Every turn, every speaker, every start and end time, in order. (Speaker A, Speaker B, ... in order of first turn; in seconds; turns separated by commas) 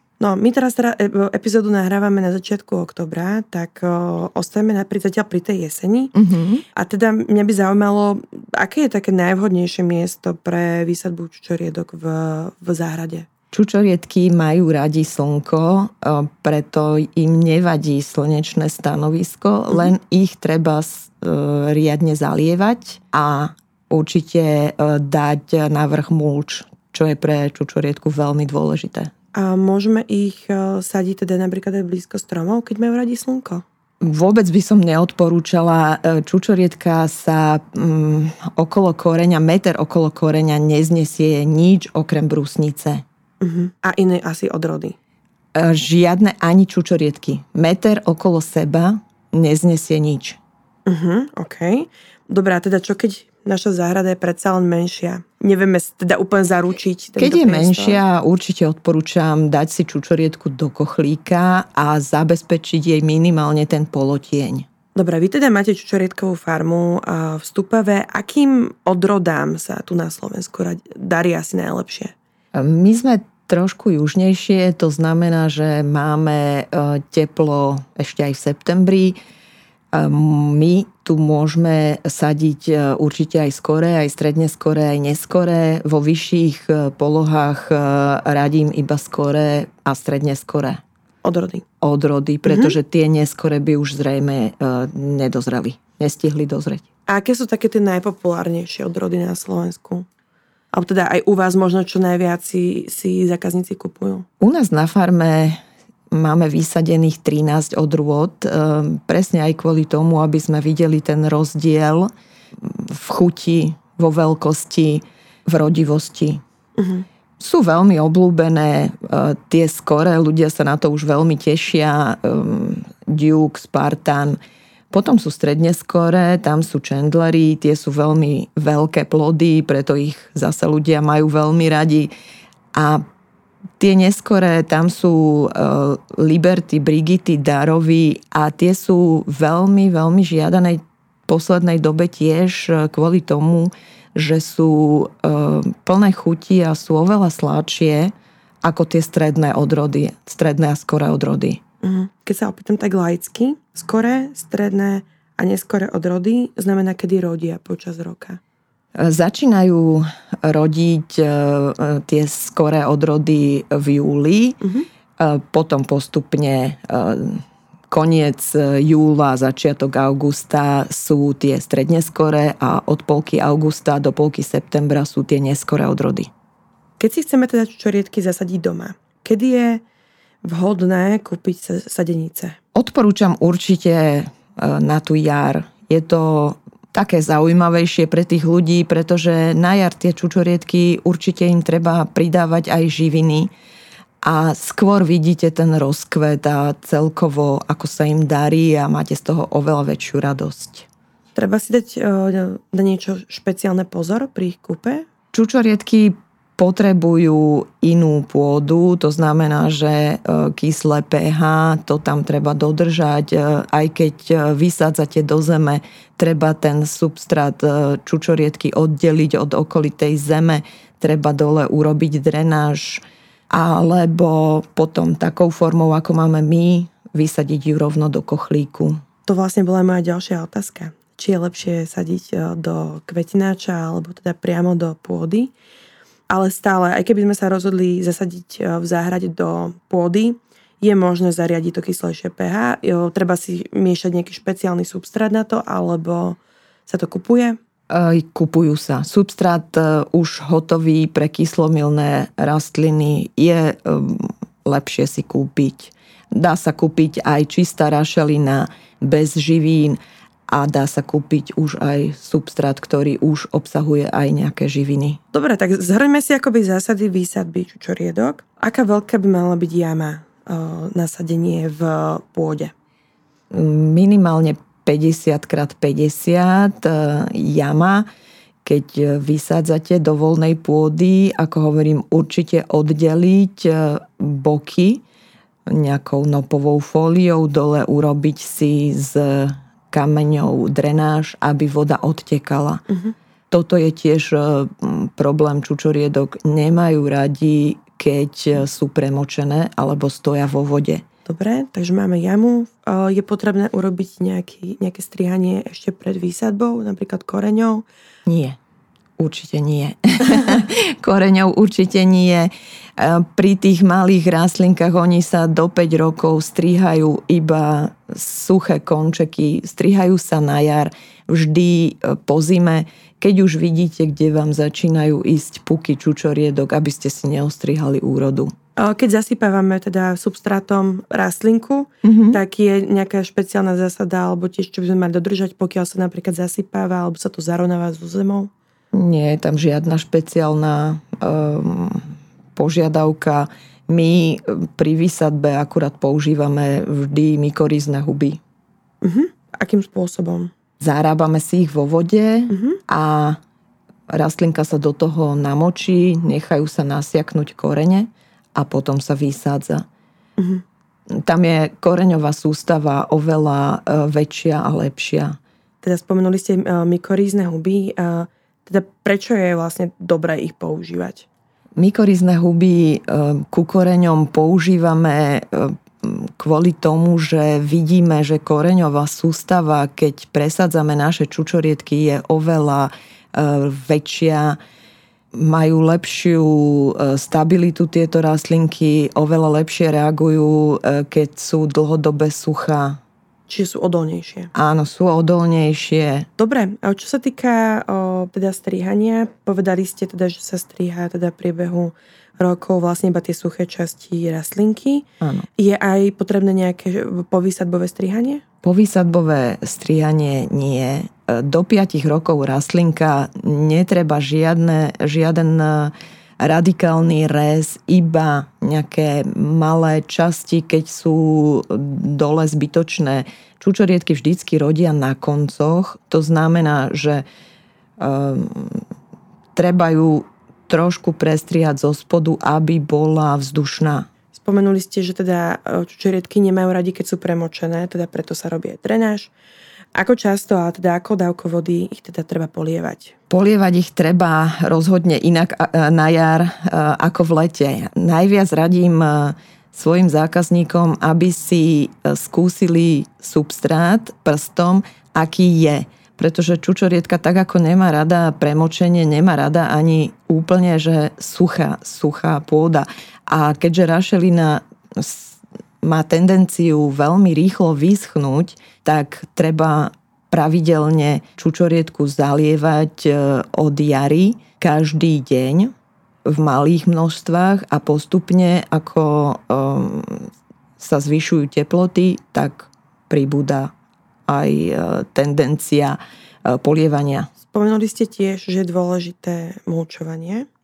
Speaker A: 0.2-6.1, Speaker B: 6.1-6.6, Speaker A: 6.7-13.3, Speaker B: 13.5-29.1, Speaker A: 29.3-33.6, Speaker B: 34.0-43.0, Speaker A: 43.4-45.0, Speaker B: 45.5-50.4, Speaker A: 50.9-58.0, Speaker B: 57.2-64.7, Speaker A: 64.9-72.1, Speaker B: 72.5-79.2, Speaker B: 79.9-90.8, Speaker A: 91.2-91.6, Speaker B: 91.8-96.8, Speaker A: 92.4-92.8, Speaker A: 97.1-100.1, Speaker A: 100.7-104.2, Speaker B: 104.4-105.6, Speaker B: 106.1-116.4, Speaker A: 116.8-117.0, Speaker B: 117.4-124.4, Speaker B: 124.9-132.1, Speaker B: 132.7-133.0, Speaker B: 133.8-151.6, Speaker A: 151.8-158.4, Speaker B: 158.9-164.6, Speaker A: 164.6-164.9, Speaker B: 165.2-176.3, Speaker A: 177.0-179.8, Speaker A: 180.4-182.6, Speaker B: 182.7-193.5, Speaker B: 194.2-200.9, Speaker A: 201.3-205.1, Speaker B: 205.3-229.0, Speaker A: 229.2-235.5, Speaker A: 236.3-247.6, Speaker B: 247.9-265.2, Speaker A: 265.3-272.7, Speaker B: 273.5-278.1, Speaker B: 278.6-285.0, Speaker B: 285.7-292.8, Speaker B: 293.5-301.0, Speaker A: 301.2-307.9, Speaker B: 308.2-308.6, Speaker B: 309.2-328.5, Speaker A: 328.8-338.5, Speaker B: 332.0-332.4, Speaker B: 338.9-348.4, Speaker A: 349.0-350.5, Speaker B: 350.8-353.4, Speaker A: 352.5-352.8, Speaker B: 354.1-359.8, Speaker A: 360.4-360.6, Speaker B: 361.1-365.4, Speaker A: 365.8-371.3, Speaker B: 371.8-384.6, Speaker B: 385.3-393.0, Speaker A: 393.5-394.5, Speaker B: 394.5-396.3, Speaker A: 396.4-408.4, Speaker B: 405.2-405.5, Speaker B: 408.6-427.2, Speaker B: 428.0-428.8, Speaker B: 429.5-434.1, Speaker A: 434.3-439.3, Speaker A: 439.9-443.1, Speaker B: 443.3-475.7, Speaker B: 476.2-483.7, Speaker B: 484.3-487.3, Speaker A: 487.5-490.5